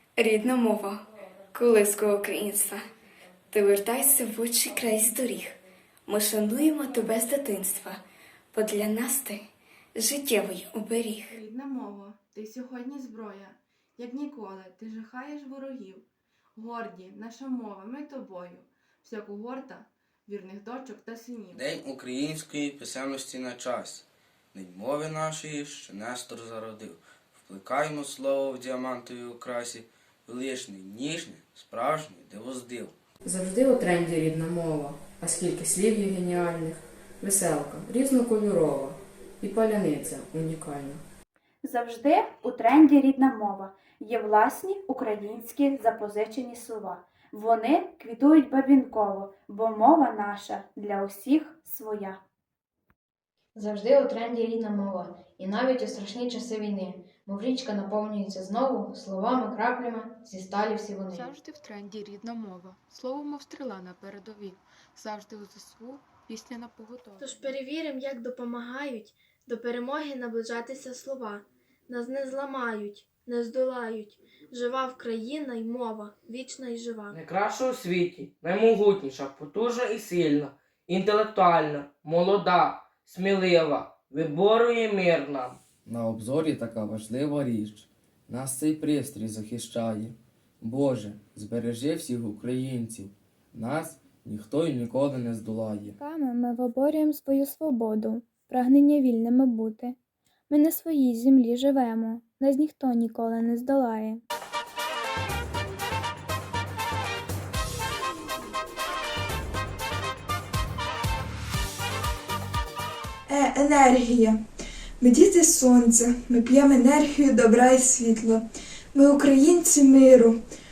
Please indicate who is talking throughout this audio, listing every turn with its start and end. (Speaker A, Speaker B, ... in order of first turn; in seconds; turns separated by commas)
Speaker A: 0.2-1.0, Speaker A: 1.5-2.8, Speaker A: 3.5-11.3, Speaker B: 11.3-16.0, Speaker B: 16.6-21.7, Speaker C: 21.5-32.9, Speaker D: 33.2-41.0, Speaker E: 41.6-52.2, Speaker F: 53.5-61.3, Speaker B: 61.1-61.8, Speaker G: 61.8-67.1, Speaker H: 67.2-77.2, Speaker I: 77.1-85.6, Speaker J: 85.8-96.0, Speaker K: 96.0-100.0, Speaker K: 100.5-104.2, Speaker L: 113.3-114.4, Speaker L: 115.0-118.4, Speaker L: 118.9-120.4